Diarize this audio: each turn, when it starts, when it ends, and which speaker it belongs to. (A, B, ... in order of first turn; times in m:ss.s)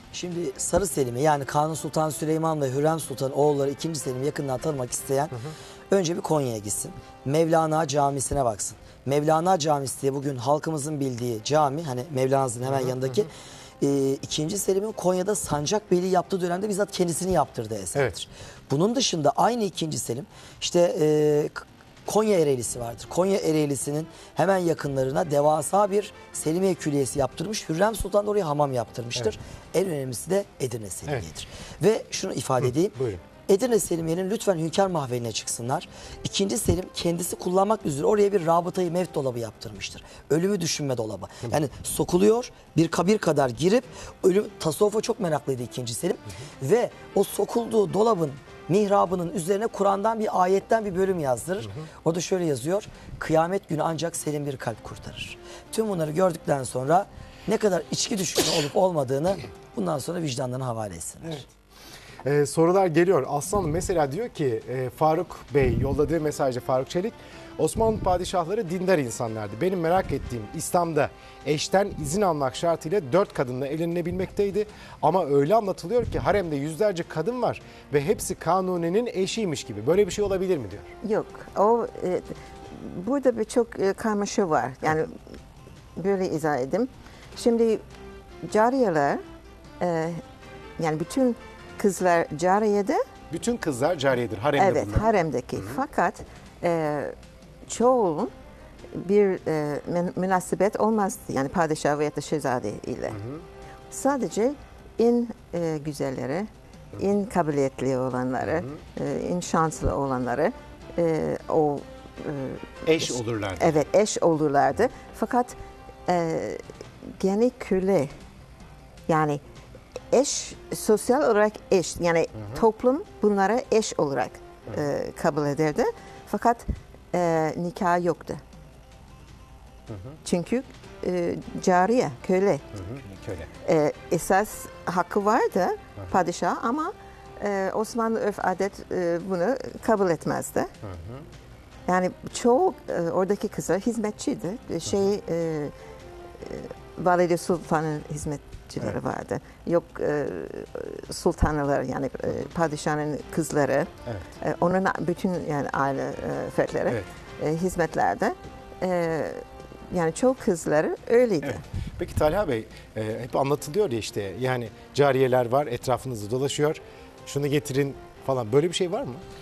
0:00.1-0:05.4 A
0:05.9-1:01.4 A
0:12.7-0:13.1 B
0:32.9-0:33.2 B
0:51.6-0:51.9 B
1:01.2-1:01.5 B
1:02.2-1:20.9 B
1:21.0-1:25.2 C
1:26.0-1:27.8 C
1:28.4-1:29.2 C
1:29.8-1:30.2 C
1:30.8-1:33.0 C
1:33.3-1:35.8 B
1:34.6-1:37.2 C
1:37.7-1:38.3 C
1:38.9-1:43.2 C
1:43.1-1:43.4 B
1:43.9-1:55.6 C
1:48.4-1:48.8 B
1:52.8-1:53.8 B
1:56.1-1:56.6 C
1:57.2-1:58.1 C
1:59.1-1:59.4 C
2:00.1-2:08.4 C
2:02.4-2:02.6 B
2:09.9-2:10.2 B
2:10.2-2:12.7 C
2:12.7-2:13.5 B
2:13.6-2:20.7 C
2:20.8-2:21.3 B
2:21.9-2:25.7 C
2:26.4-2:41.6 C
2:41.4-2:49.2 B